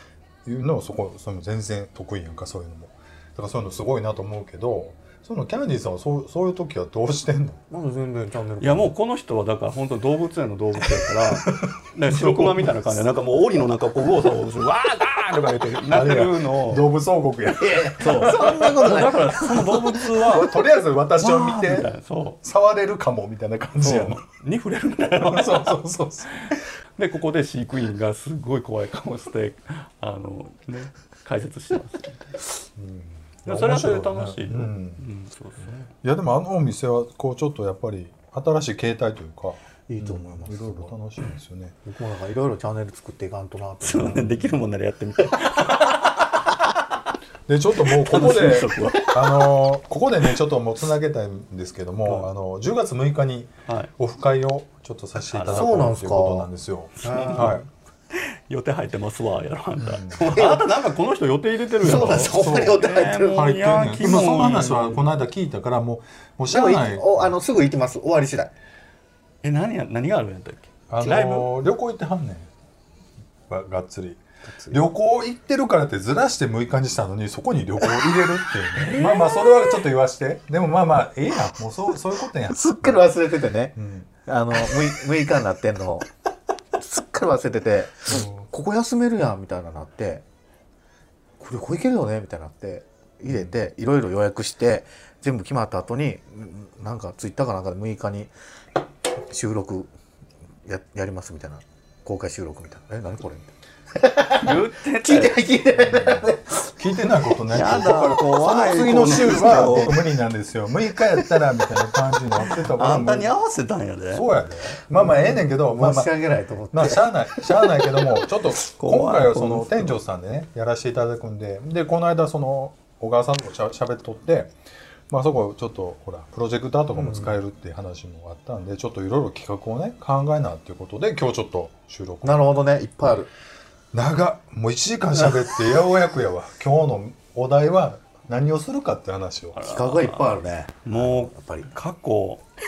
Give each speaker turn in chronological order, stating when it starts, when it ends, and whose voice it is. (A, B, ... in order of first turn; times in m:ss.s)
0:00.4-0:07.6 A
0:07.7-0:08.9 B
0:08.6-0:16.9 C
0:11.3-0:13.0 A
0:15.9-0:18.9 A
0:17.6-0:20.4 B
0:18.0-0:20.6 C
0:20.2-0:21.9 A
0:21.2-0:22.4 C
0:22.4-0:24.2 A
0:23.8-0:32.4 C
0:25.2-0:26.6 A
0:32.8-0:35.1 A
0:33.4-0:35.8 C
0:36.0-0:41.8 A
0:39.9-0:40.9 B
0:41.8-0:44.6 B
0:43.8-0:46.6 C
0:47.5-0:57.7 A
0:47.8-0:49.5 C
0:55.2-0:55.8 C
0:55.5-0:56.5 B
0:57.0-0:57.6 C
0:57.0-0:57.6 B
0:58.1-1:05.1 C
0:59.8-1:00.3 A
1:00.2-1:00.7 B
1:01.8-1:03.5 B
1:01.8-1:07.3 A
1:06.5-1:08.5 B
1:09.4-1:11.5 C
1:10.9-1:12.5 A
1:13.5-1:23.0 A
1:14.5-1:14.8 B
1:18.8-1:19.7 C
1:22.4-1:26.1 B
1:23.8-1:24.1 A
1:26.8-1:30.2 B
1:28.1-1:28.4 A
1:31.4-1:38.3 B
1:39.2-1:39.9 B
1:40.6-1:46.7 B
1:44.4-1:45.5 C
1:45.9-1:53.4 A
1:47.4-1:50.0 C
1:49.4-1:49.8 B
1:52.6-1:54.3 C
1:54.1-1:56.1 A
1:54.9-1:57.8 B
1:56.7-2:04.5 A
1:58.6-2:00.0 C
2:05.1-2:12.5 A
2:06.9-2:07.4 B
2:12.2-2:13.3 B
2:13.9-2:19.6 A
2:19.6-2:22.4 C
2:19.6-2:21.7 B